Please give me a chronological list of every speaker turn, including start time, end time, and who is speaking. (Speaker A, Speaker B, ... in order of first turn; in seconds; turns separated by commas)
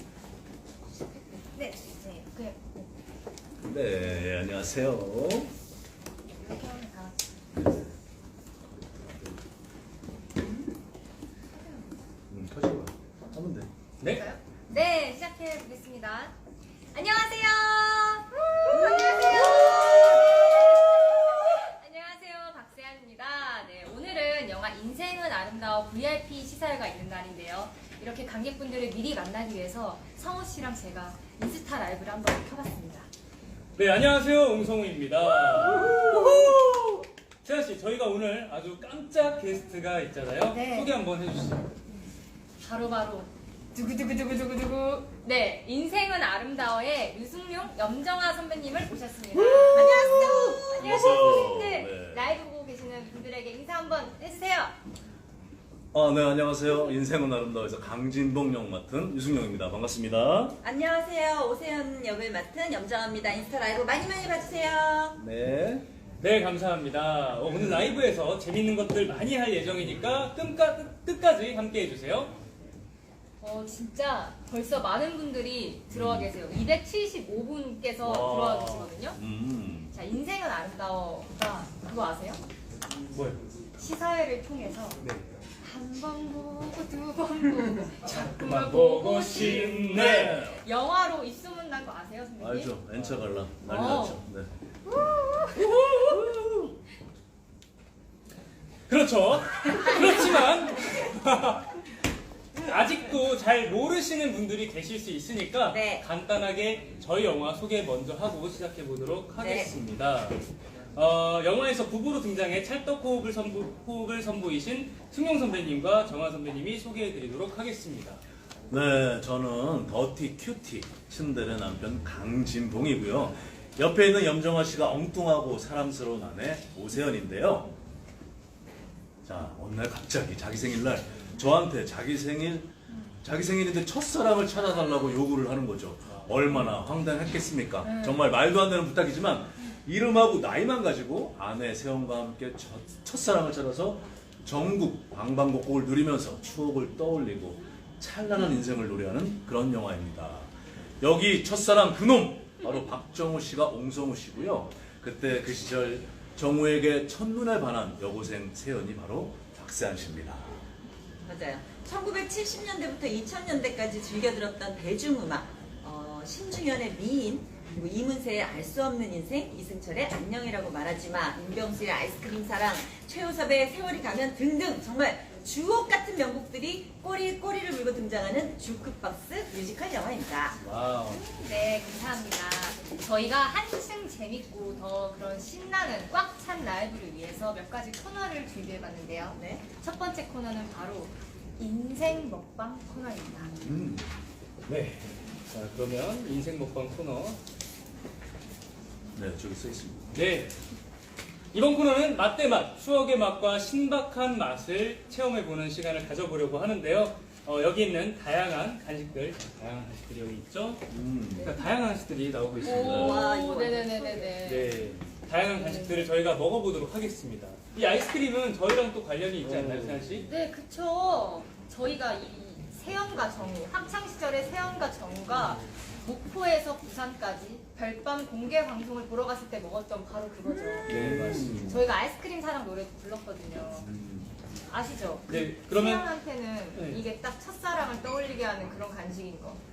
Speaker A: 1.1-2.9, Speaker B: 3.6-5.5, Speaker A: 6.3-7.2, Speaker B: 7.5-8.0, Speaker B: 8.8-9.4, Speaker A: 11.5-12.0, Speaker B: 12.3-13.7, Speaker A: 14.0-16.3, Speaker A: 16.9-33.1, Speaker C: 18.7-20.5, Speaker D: 33.8-36.5, Speaker C: 35.6-36.9, Speaker D: 37.4-41.7, Speaker A: 40.5-40.9, Speaker A: 42.6-54.7, Speaker C: 49.3-50.8, Speaker B: 50.7-52.3, Speaker B: 55.9-60.6, Speaker C: 60.6-65.2, Speaker B: 65.2-65.9, Speaker D: 66.2-72.3, Speaker A: 73.4-79.2, Speaker B: 75.9-76.3, Speaker D: 78.0-78.9, Speaker B: 79.1-79.9, Speaker A: 79.9-82.4, Speaker D: 83.1-83.4, Speaker A: 83.8-85.0, Speaker D: 85.0-85.3, Speaker A: 85.6-92.7, Speaker D: 88.0-90.5, Speaker B: 89.3-90.6, Speaker B: 92.4-94.5, Speaker A: 93.6-94.2, Speaker A: 95.0-95.7, Speaker B: 95.7-96.5, Speaker D: 98.9-101.8, Speaker D: 102.5-118.2, Speaker C: 105.7-106.0, Speaker C: 109.4-109.7, Speaker B: 118.7-127.8, Speaker B: 129.2-132.7, Speaker A: 132.9-133.2, Speaker B: 133.2-160.6, Speaker D: 136.1-136.5, Speaker A: 137.8-138.3, Speaker C: 161.2-180.6, Speaker D: 180.6-181.2, Speaker A: 181.0-193.6, Speaker C: 189.3-189.6, Speaker B: 193.6-194.1, Speaker D: 194.7-197.4, Speaker B: 199.1-200.1, Speaker D: 200.1-200.6, Speaker D: 201.5-210.8, Speaker B: 210.9-211.5, Speaker D: 211.4-213.2, Speaker A: 212.6-214.8, Speaker C: 212.6-214.4, Speaker B: 212.7-213.2, Speaker D: 214.4-220.3, Speaker A: 215.6-216.1, Speaker B: 219.4-220.3, Speaker A: 220.2-233.9, Speaker C: 230.5-231.2, Speaker D: 230.8-231.8, Speaker B: 230.9-231.8, Speaker A: 234.7-239.6, Speaker D: 235.3-236.1, Speaker D: 236.7-237.0